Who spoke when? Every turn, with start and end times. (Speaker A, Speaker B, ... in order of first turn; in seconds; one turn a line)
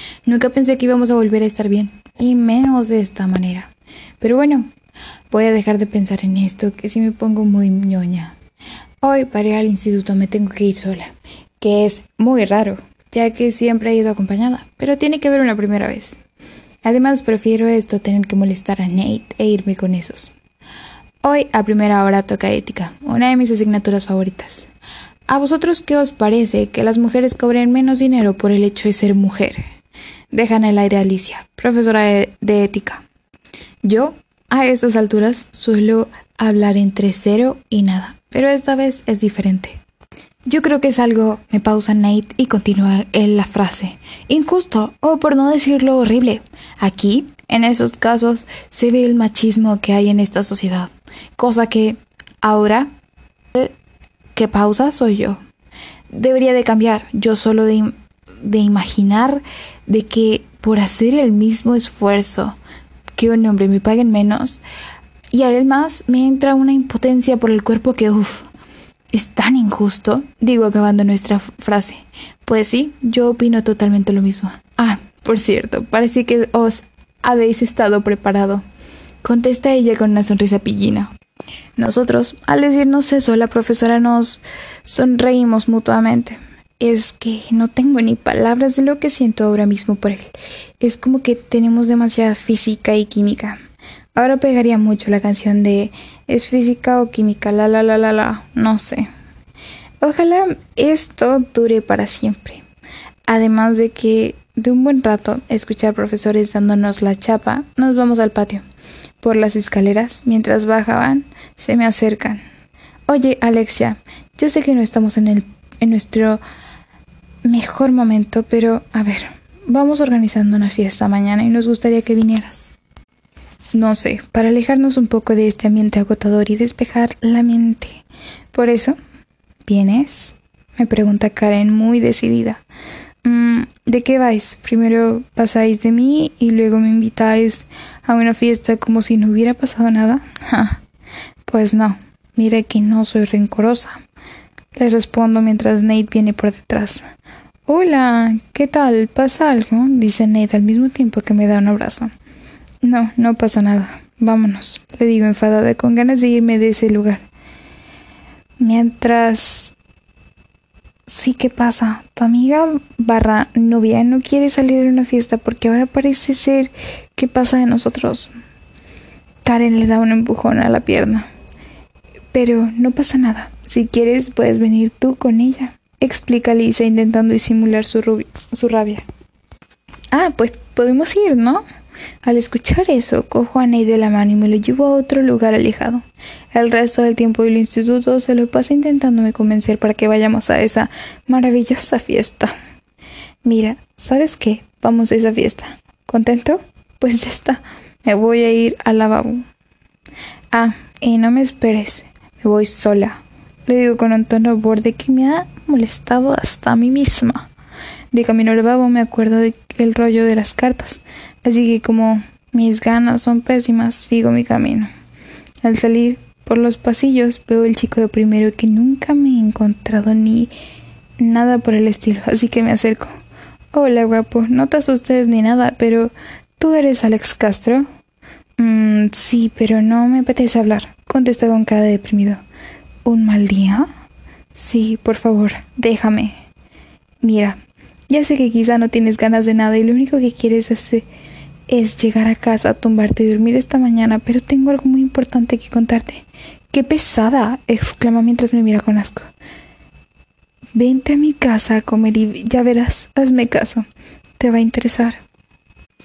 Speaker A: 0.2-4.7
Speaker A: 5.3-8.3
Speaker A: 9.0-16.2
Speaker A: 16.8-20.3
Speaker A: 21.2-24.7
Speaker A: 25.3-29.6
Speaker A: 30.3-33.0
Speaker A: 33.8-39.8
Speaker A: 40.5-52.9
Speaker A: 54.3-55.4
Speaker A: 56.1-62.6
Speaker A: 63.1-64.6
Speaker A: 65.3-68.5
Speaker A: 69.1-78.6
Speaker A: 79.2-81.1
Speaker A: 81.8-93.6
Speaker A: 94.1-99.1
Speaker A: 100.0-102.6
Speaker A: 103.3-108.6
Speaker A: 109.2-112.4
Speaker A: 113.1-116.4
Speaker A: 117.4-122.7
Speaker A: 123.7-129.0
Speaker A: 129.7-132.6
Speaker A: 133.2-140.8
Speaker A: 141.4-144.0
Speaker A: 144.7-147.0
Speaker A: 147.7-152.1
Speaker A: 152.8-157.2
Speaker A: 158.6-159.7
Speaker A: 161.1-168.3
Speaker A: 169.4-171.3
Speaker A: 172.3-179.0
Speaker A: 180.1-181.6
Speaker A: 182.2-192.5
Speaker A: 193.4-199.4
Speaker A: 200.5-207.5
Speaker A: 208.1-214.9
Speaker A: 215.6-220.5
Speaker A: 221.2-223.1
Speaker A: 223.7-227.9
Speaker A: 228.6-232.4
Speaker A: 233.0-233.9
Speaker A: 234.5-236.3
Speaker A: 237.2-237.6
Speaker A: 238.1-241.1
Speaker A: 241.7-249.3
Speaker A: 250.7-253.8
Speaker A: 254.4-255.2